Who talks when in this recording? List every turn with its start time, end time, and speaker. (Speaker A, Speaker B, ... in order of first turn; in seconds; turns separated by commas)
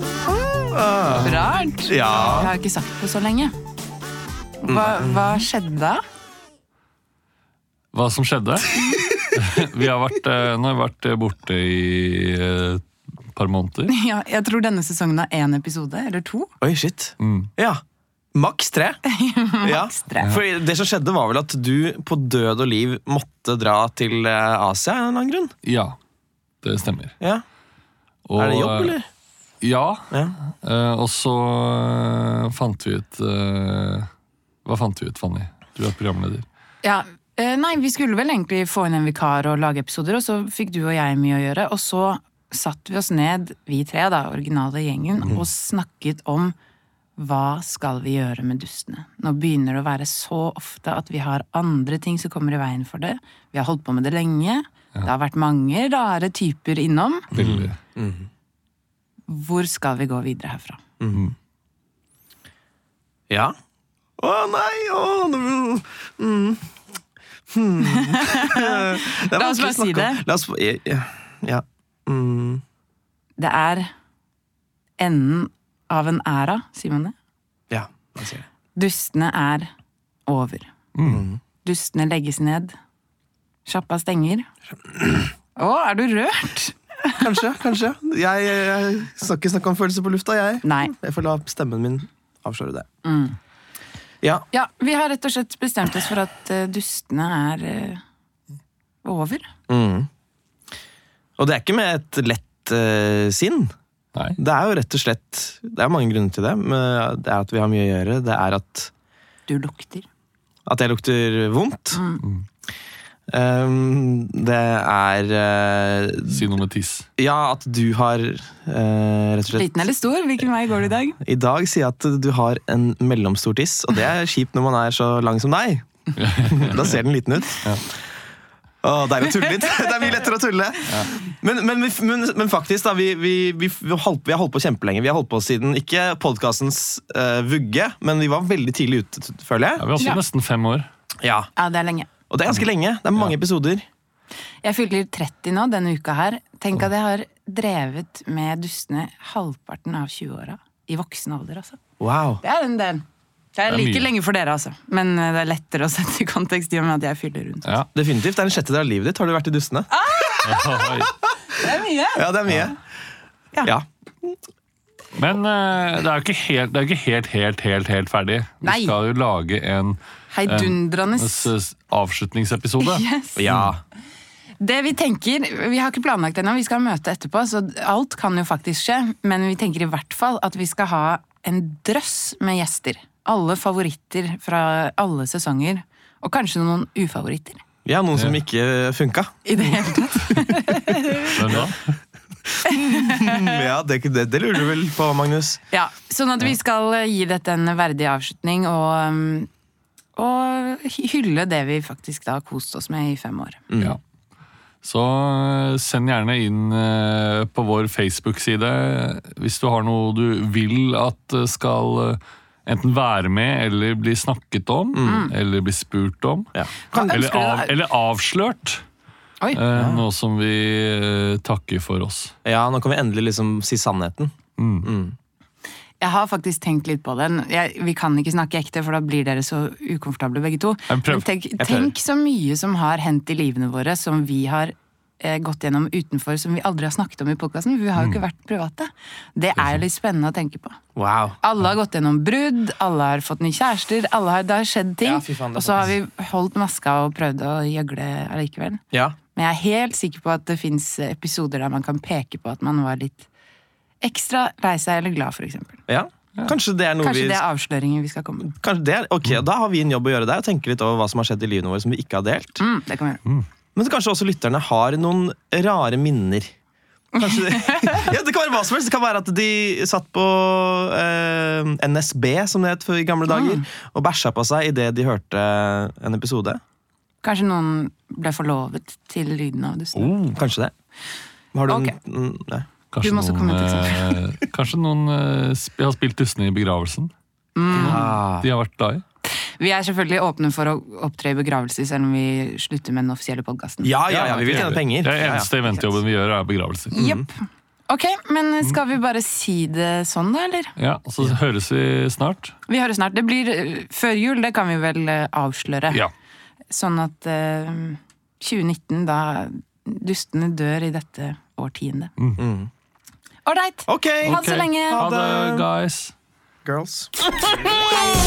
Speaker A: 0.3-2.5, Speaker B: 1.2-3.5, Speaker B: 4.6-6.0, Speaker A: 4.7-5.4, Speaker C: 7.9-13.9, Speaker B: 8.7-9.1, Speaker B: 13.9-16.5, Speaker A: 16.6-17.8, Speaker C: 17.2-17.5, Speaker A: 18.3-19.0, Speaker B: 19.1-20.3, Speaker A: 19.6-25.5, Speaker C: 25.6-26.0, Speaker C: 26.6-27.1, Speaker C: 28.2-28.9, Speaker A: 28.4-29.1, Speaker C: 29.6-34.1, Speaker A: 30.1-30.4, Speaker C: 34.6-36.4, Speaker B: 36.8-46.5, Speaker B: 47.2-57.3, Speaker C: 57.3-57.8, Speaker A: 57.3-58.3, Speaker B: 59.3-60.8, Speaker A: 64.2-66.7, Speaker A: 67.5-72.6, Speaker B: 67.8-70.2, Speaker B: 73.4-73.9, Speaker B: 75.0-77.1, Speaker A: 77.7-78.5, Speaker B: 78.7-79.7, Speaker B: 80.2-80.7, Speaker C: 80.9-81.2, Speaker A: 81.0-81.4, Speaker B: 81.6-82.7, Speaker B: 83.6-84.5, Speaker B: 85.5-87.2, Speaker A: 87.2-92.8, Speaker B: 90.6-90.9, Speaker B: 93.0-93.3, Speaker B: 94.5-98.0, Speaker B: 99.0-99.5, Speaker A: 99.7-100.1, Speaker A: 101.4-103.7, Speaker A: 104.3-108.9, Speaker B: 109.5-110.0, Speaker A: 110.7-112.0, Speaker B: 111.9-112.2, Speaker A: 113.3-116.4, Speaker C: 116.3-117.1, Speaker A: 117.2-119.7, Speaker B: 119.5-121.2, Speaker A: 121.2-125.9, Speaker C: 126.2-127.0, Speaker A: 126.4-127.8, Speaker A: 128.8-139.8, Speaker C: 139.8-140.9, Speaker A: 141.2-141.5, Speaker B: 141.6-142.1, Speaker A: 142.3-143.8, Speaker B: 144.6-151.8, Speaker A: 152.0-152.4, Speaker B: 152.4-153.0, Speaker B: 153.5-157.8, Speaker C: 153.7-154.1, Speaker A: 157.9-159.9, Speaker B: 159.9-160.8, Speaker C: 160.4-161.1, Speaker B: 161.5-162.3, Speaker A: 162.1-162.8, Speaker C: 165.1-173.7, Speaker B: 168.6-168.9, Speaker B: 170.3-171.5, Speaker B: 172.8-173.5, Speaker A: 173.3-173.8, Speaker B: 174.6-187.6, Speaker A: 187.8-190.0, Speaker B: 189.4-191.4, Speaker C: 191.3-191.8, Speaker A: 191.4-191.7, Speaker A: 192.6-195.6, Speaker B: 192.7-193.5, Speaker B: 195.7-199.5, Speaker B: 200.2-203.6, Speaker A: 203.7-203.9, Speaker C: 204.8-216.5, Speaker A: 214.9-215.3, Speaker B: 215.0-215.3, Speaker A: 216.5-217.1, Speaker B: 216.9-217.7, Speaker C: 217.1-218.8, Speaker C: 219.5-222.3, Speaker A: 219.7-220.0, Speaker A: 222.4-225.2, Speaker C: 224.6-224.9, Speaker B: 226.0-240.8, Speaker C: 230.9-231.3, Speaker A: 231.6-231.9, Speaker A: 240.9-241.4, Speaker B: 241.4-248.8, Speaker A: 245.0-245.9, Speaker B: 249.3-253.3, Speaker B: 254.0-255.8, Speaker A: 255.9-257.4, Speaker B: 257.0-258.5, Speaker A: 258.5-262.6, Speaker B: 262.6-263.2, Speaker A: 263.7-266.5, Speaker A: 267.1-276.6, Speaker B: 267.2-268.1, Speaker B: 273.3-273.6, Speaker B: 277.2-280.1, Speaker A: 279.9-280.7, Speaker A: 281.5-282.7, Speaker B: 281.7-281.9, Speaker C: 282.9-287.1, Speaker B: 283.0-284.1, Speaker B: 287.5-288.1, Speaker C: 287.7-289.0, Speaker A: 287.7-288.5, Speaker B: 289.6-294.0, Speaker A: 293.8-295.5, Speaker C: 294.1-297.1, Speaker B: 296.9-297.4, Speaker A: 296.9-297.2, Speaker B: 297.9-300.7, Speaker C: 300.8-302.5, Speaker B: 302.7-306.0, Speaker B: 306.7-312.1, Speaker A: 312.4-312.7, Speaker B: 313.4-315.1, Speaker A: 313.9-315.6, Speaker C: 314.2-316.1, Speaker A: 316.6-317.1